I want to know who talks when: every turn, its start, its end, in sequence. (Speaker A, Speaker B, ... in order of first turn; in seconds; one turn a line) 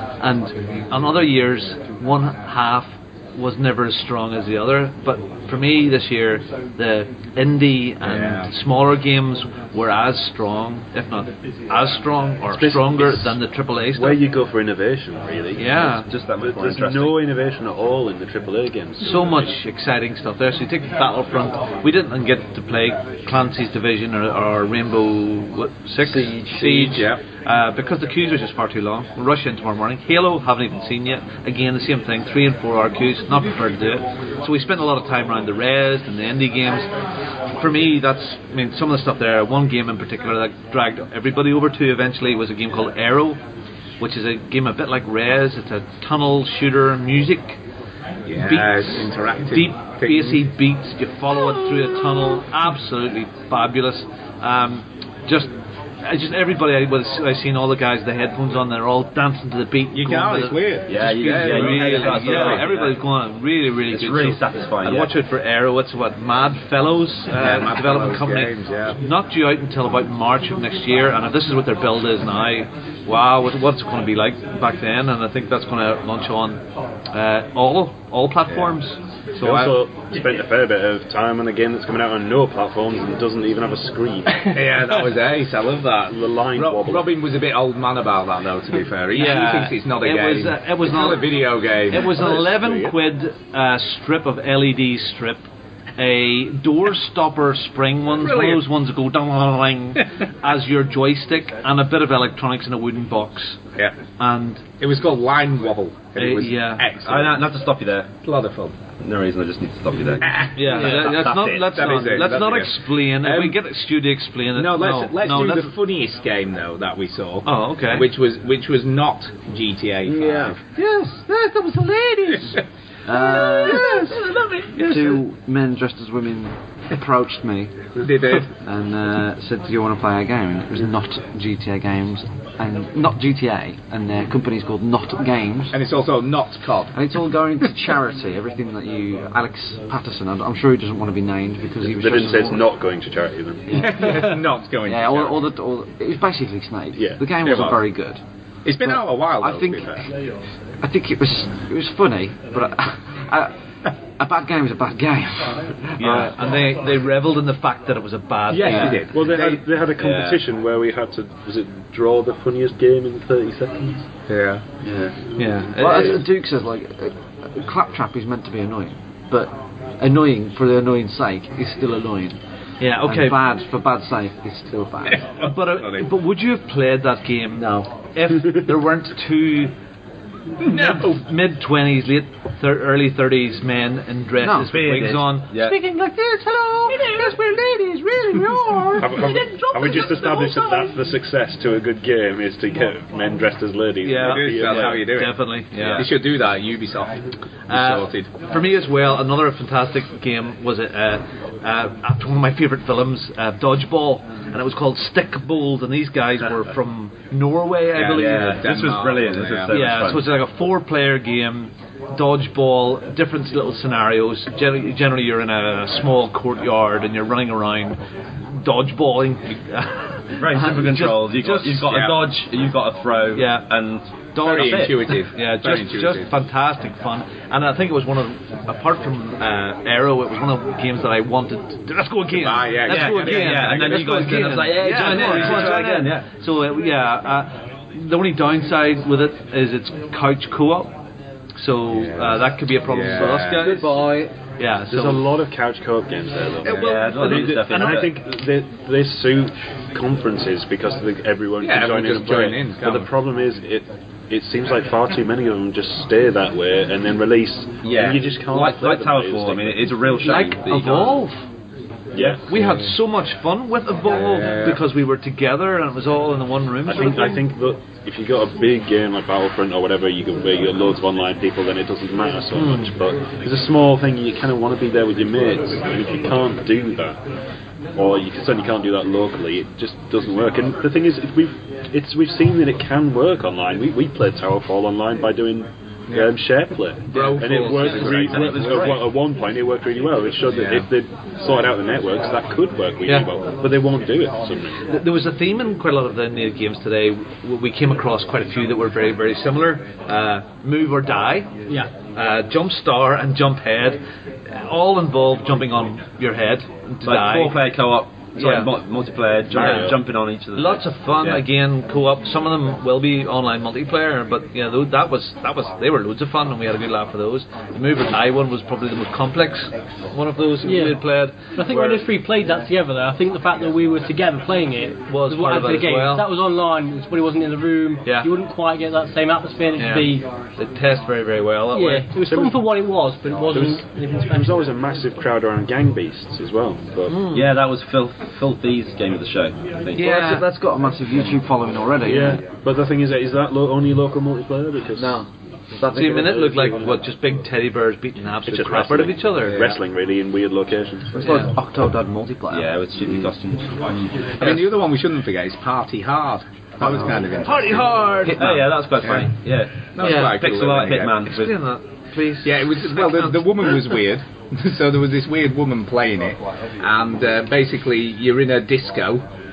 Speaker A: 0.2-14.2
Speaker B: 8.0-8.5
Speaker C: 12.5-13.4
Speaker C: 13.9-19.2
Speaker A: 15.6-16.1
Speaker D: 15.9-17.2
Speaker A: 19.0-36.9
Speaker E: 26.0-27.0
Speaker B: 26.6-27.2
Speaker A: 37.5-43.4
Speaker A: 44.0-47.6
Speaker B: 48.3-50.4
Speaker A: 48.4-55.5
Speaker A: 56.0-76.6
Speaker B: 59.9-62.7
Speaker D: 60.9-63.0
Speaker D: 63.9-65.1
Speaker B: 67.3-69.0
Speaker A: 77.1-79.0
Speaker B: 78.5-78.8
Speaker C: 79.4-84.4
Speaker B: 79.4-79.7
Speaker B: 84.5-92.4
Speaker C: 86.1-87.1
Speaker A: 89.1-103.6
Speaker C: 92.0-92.9
Speaker B: 98.2-98.6
Speaker A: 104.2-104.6
Speaker B: 104.8-107.5
Speaker A: 106.2-106.9
Speaker D: 107.0-108.1
Speaker B: 108.2-108.8
Speaker D: 109.0-111.9
Speaker B: 110.2-113.6
Speaker A: 110.5-115.7
Speaker B: 114.5-120.6
Speaker A: 117.4-118.1
Speaker E: 120.1-120.5
Speaker A: 120.8-125.2
Speaker E: 123.0-124.0
Speaker B: 123.6-124.0
Speaker E: 124.8-127.8
Speaker B: 128.0-128.5
Speaker E: 128.6-135.8
Speaker B: 135.7-136.9
Speaker E: 136.9-142.6
Speaker C: 141.8-143.8
Speaker E: 143.7-148.2
Speaker B: 143.7-145.4
Speaker C: 146.9-147.8
Speaker B: 148.6-150.0
Speaker E: 148.8-150.1
Speaker E: 150.8-153.5
Speaker E: 154.2-156.3
Speaker A: 156.0-159.0
Speaker B: 158.5-159.6
Speaker C: 158.8-164.0
Speaker D: 160.0-160.4
Speaker B: 164.3-164.6
Speaker A: 165.4-166.2
Speaker E: 165.8-172.4
Speaker A: 172.8-173.4
Speaker E: 173.0-175.2
Speaker B: 175.2-176.1
Speaker A: 175.4-179.7
Speaker E: 177.5-177.9
Speaker B: 180.6-181.2
Speaker A: 180.6-190.9
Speaker E: 184.4-184.7
Speaker D: 184.7-185.8
Speaker B: 188.3-189.0
Speaker C: 189.0-195.0
Speaker A: 194.0-196.1
Speaker B: 194.2-198.3
Speaker D: 194.7-195.0
Speaker D: 195.7-196.1
Speaker A: 197.7-208.6
Speaker B: 207.9-210.0
Speaker D: 208.0-210.2
Speaker A: 209.7-218.0
Speaker A: 218.5-221.6
Speaker D: 220.4-225.1
Speaker B: 221.5-222.2
Speaker A: 223.3-223.6
Speaker B: 224.4-226.3
Speaker A: 224.6-240.9
Speaker B: 232.3-235.8
Speaker D: 232.8-236.2
Speaker A: 241.6-244.1
Speaker B: 241.9-243.8
Speaker E: 243.3-244.3
Speaker A: 244.6-245.3
Speaker C: 244.9-260.4
Speaker A: 246.6-248.1
Speaker D: 246.7-248.1
Speaker B: 251.6-253.1
Speaker D: 257.8-261.2
Speaker A: 260.2-261.4
Speaker C: 262.1-262.4
Speaker A: 262.5-267.4
Speaker B: 262.5-262.9
Speaker B: 264.1-264.8
Speaker C: 266.8-277.2
Speaker A: 272.5-272.9
Speaker C: 277.9-294.8
Speaker B: 286.1-286.3
Speaker B: 287.1-288.9
Speaker A: 287.1-288.1
Speaker D: 287.8-289.1
Speaker B: 290.4-290.9
Speaker A: 294.9-301.5
Speaker A: 302.1-304.0
Speaker A: 304.5-307.7
Speaker D: 307.0-311.4
Speaker A: 308.4-308.7
Speaker C: 309.5-310.0
Speaker A: 309.5-309.9
Speaker A: 310.5-322.0
Speaker F: 320.6-330.2
Speaker A: 325.1-326.2
Speaker A: 329.8-332.1
Speaker F: 331.7-334.7
Speaker C: 332.1-332.7
Speaker C: 333.5-337.2
Speaker A: 337.1-337.5
Speaker D: 337.3-340.3
Speaker E: 339.9-342.4
Speaker A: 340.0-340.4
Speaker C: 342.0-345.2
Speaker E: 344.9-347.0
Speaker A: 345.9-349.6
Speaker C: 348.5-351.2
Speaker B: 349.5-349.8
Speaker E: 351.2-353.3
Speaker A: 351.2-351.5
Speaker D: 352.5-354.1
Speaker B: 354.4-358.1
Speaker E: 356.8-357.2
Speaker A: 357.4-358.6
Speaker E: 358.2-358.7
Speaker D: 358.3-361.6
Speaker B: 359.0-359.3
Speaker B: 359.9-361.3
Speaker A: 360.0-360.3
Speaker A: 361.3-364.0
Speaker B: 362.4-369.2